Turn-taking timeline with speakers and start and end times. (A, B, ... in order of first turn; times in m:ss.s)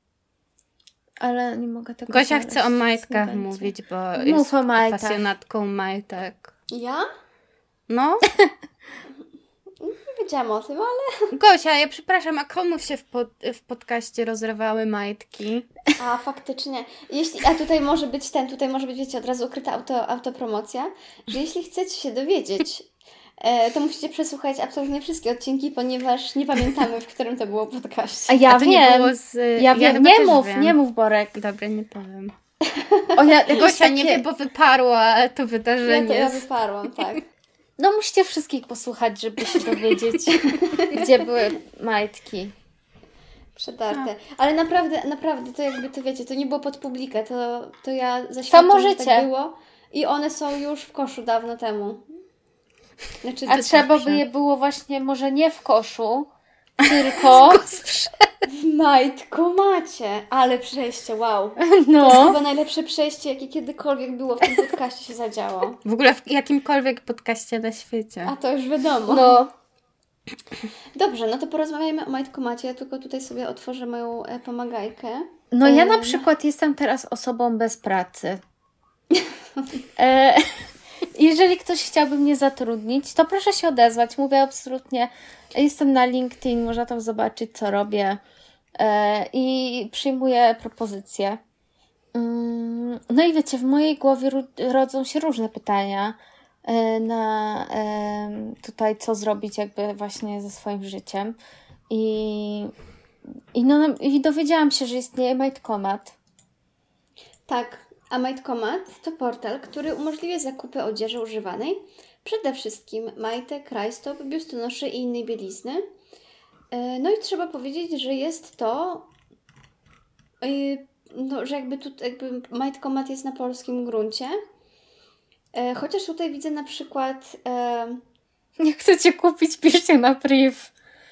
0:01.2-0:05.2 A
0:02.1-0:06.5 B
0:06.7-0:07.1 C
0:07.9-0:08.3 B
0:09.8-0:11.3 C
0:11.3-0:15.7 B
0:16.0-0:28.4 C
0:28.3-0:31.4 A
0:28.5-0:30.8 B
0:31.4-0:32.3 B
0:32.7-0:33.2 C
0:33.2-0:34.3 A
0:33.5-0:36.5 B
0:35.8-0:37.3 C
0:37.8-0:42.5 A
0:40.3-0:41.0 C
0:43.6-0:52.0 C
0:48.5-0:49.3 A
0:53.2-0:53.9 C
0:53.5-0:56.3 A
0:53.5-0:54.2 B
0:56.8-0:57.6 A
0:56.8-0:58.2 B
0:58.5-1:05.8 C
1:01.7-1:02.4 A
1:05.8-1:08.3 B
1:08.2-1:09.4 C
1:09.1-1:09.5 A
1:11.0-1:16.3 C
1:15.5-1:18.4 A
1:20.0-1:28.2 A
1:28.8-1:31.4 A
1:32.1-1:41.4 A
1:41.9-1:42.7 A
1:43.5-1:46.2 A
1:47.5-1:55.8 C
1:56.7-1:59.1 C
2:00.4-2:04.4 C
2:05.5-2:08.0 C
2:08.6-2:10.7 A